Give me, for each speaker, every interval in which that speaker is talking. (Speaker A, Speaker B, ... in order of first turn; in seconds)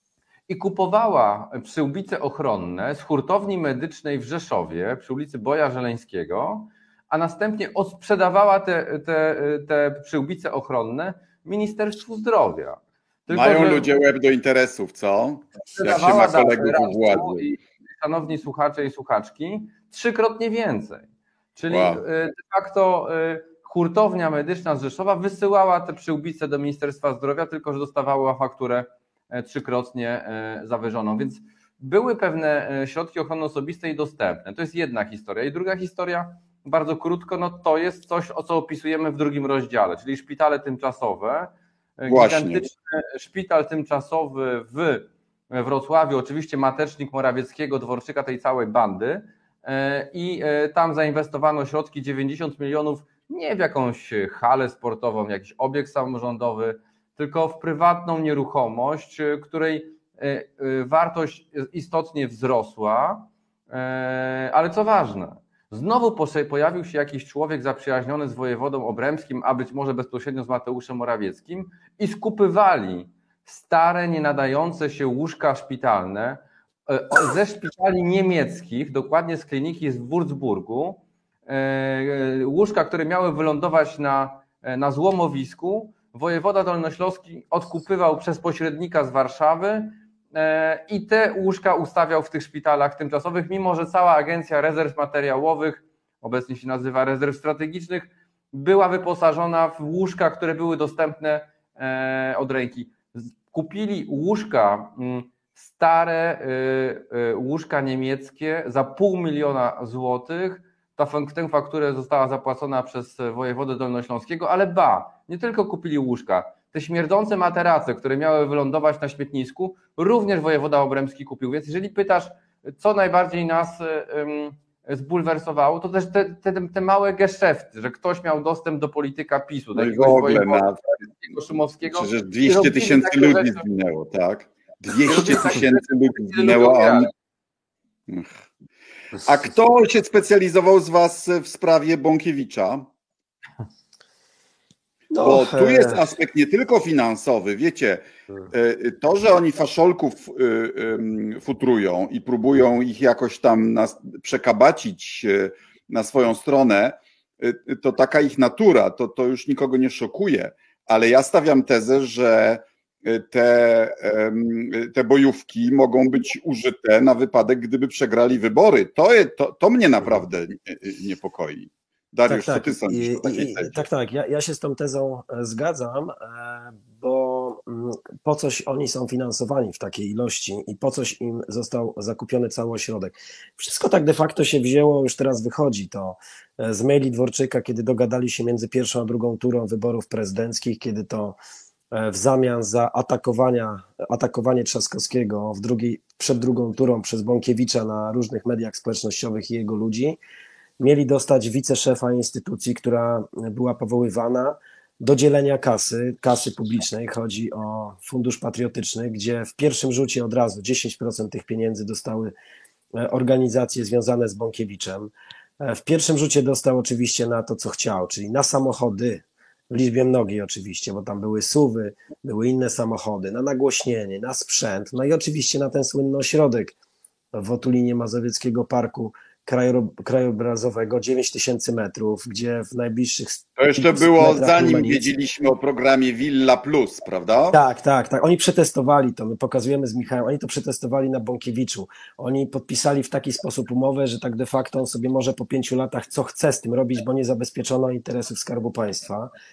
Speaker A: 0.5-13.9, 15.7-133.6, 135.0-137.1
Speaker B: 13.3-17.4, 21.7-22.0, 42.1-42.7, 129.7-130.8, 131.9-137.1, 138.1-138.4, 139.2-142.9, 145.2-173.8, 233.6-237.6
Speaker C: 145.1-146.0, 172.3-191.4, 191.9-200.2, 200.8-212.3, 212.9-226.7, 227.3-235.1, 237.5-249.3